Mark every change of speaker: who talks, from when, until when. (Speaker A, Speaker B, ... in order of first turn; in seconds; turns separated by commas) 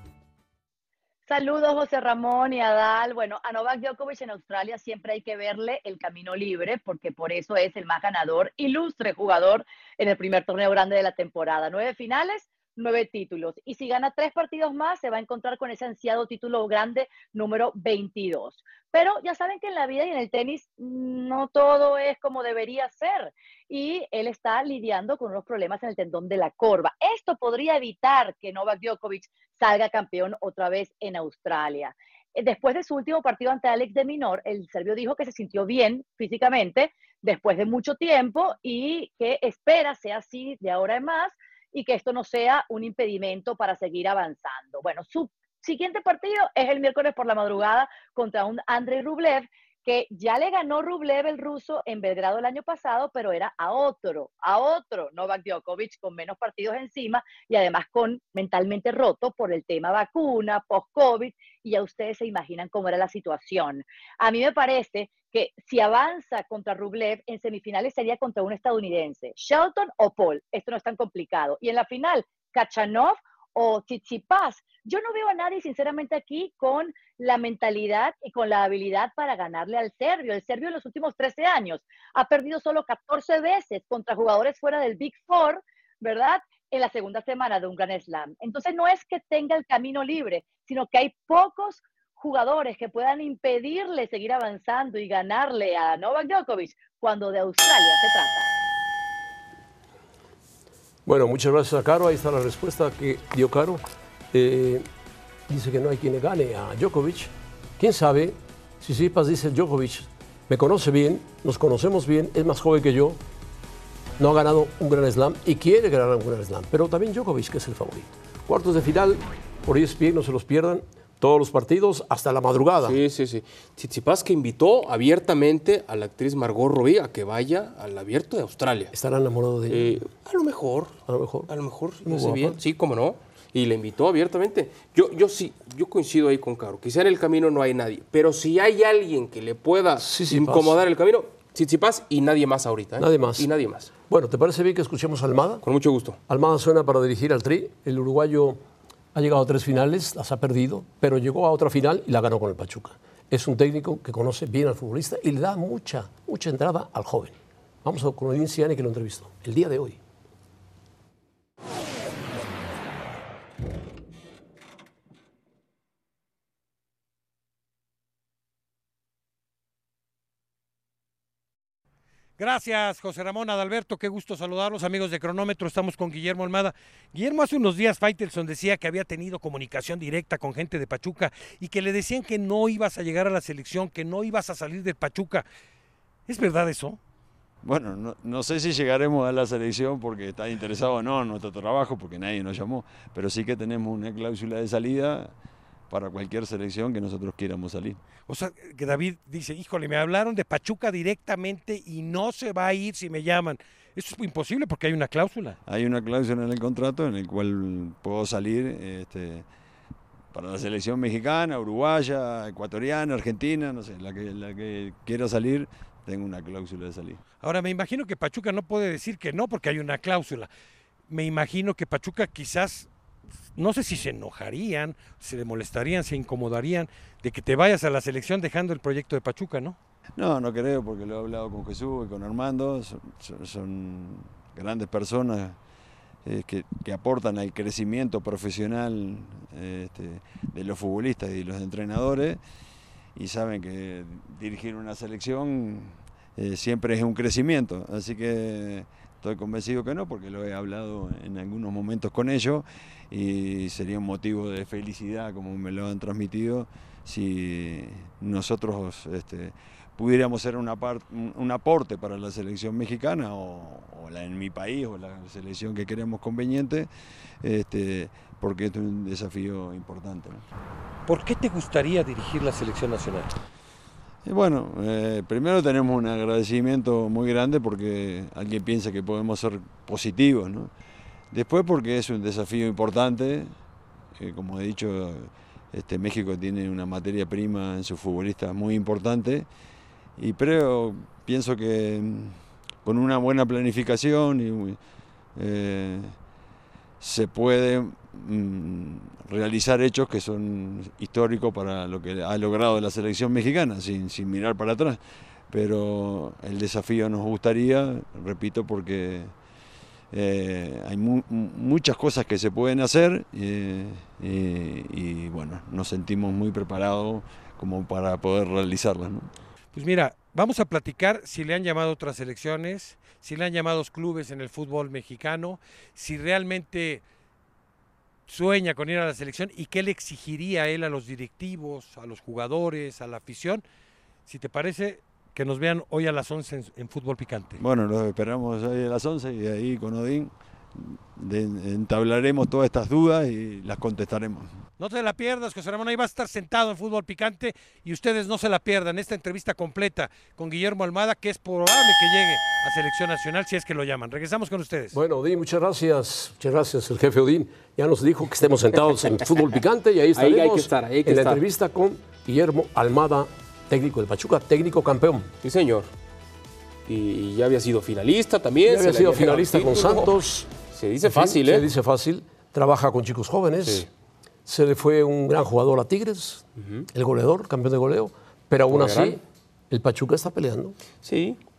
Speaker A: 1.3-98.5, Speaker B: 101.1-104.8, Speaker B: 105.5-113.2, Speaker B: 114.2-123.0, Speaker C: 122.8-128.9, Speaker B: 128.9-130.0, Speaker C: 129.7-131.0, Speaker B: 131.1-131.5, Speaker C: 131.5-143.9, Speaker B: 132.1-132.6, Speaker B: 140.0-140.8, Speaker B: 143.0-143.5, Speaker B: 144.1-145.6, Speaker C: 145.6-146.2, Speaker B: 146.3-148.6, Speaker B: 149.1-160.0, Speaker D: 172.4-185.4, Speaker D: 186.3-187.0, Speaker E: 187.6-195.3, Speaker E: 195.9-198.0, Speaker D: 198.3-205.6, Speaker E: 205.7-209.5, Speaker E: 210.3-217.2, Speaker D: 217.4-220.5, Speaker D: 221.1-222.9, Speaker D: 223.6-229.8, Speaker E: 230.2-235.6, Speaker E: 236.2-242.4, Speaker E: 243.2-266.9, Speaker E: 267.4-270.4, Speaker D: 271.1-273.3, Speaker E: 274.3-280.7, Speaker E: 281.3-283.5, Speaker E: 284.2-289.5, Speaker E: 290.2-294.8, Speaker E: 295.4-296.1, Speaker E: 297.0-305.0, Speaker E: 305.5-309.3, Speaker E: 310.1-319.3, Speaker D: 319.7-327.0, Speaker D: 328.3-333.6, Speaker D: 334.3-337.6, Speaker E: 337.6-344.5, Speaker D: 344.8-355.0, Speaker B: 354.9-365.3, Speaker C: 360.1-361.4, Speaker C: 365.4-365.9, Speaker C: 366.9-370.1, Speaker B: 368.7-370.5, Speaker C: 370.7-371.7, Speaker B: 371.0-373.9, Speaker C: 373.6-373.9, Speaker B: 374.5-380.8, Speaker C: 376.6-376.9, Speaker C: 378.7-379.2, Speaker C: 381.0-381.4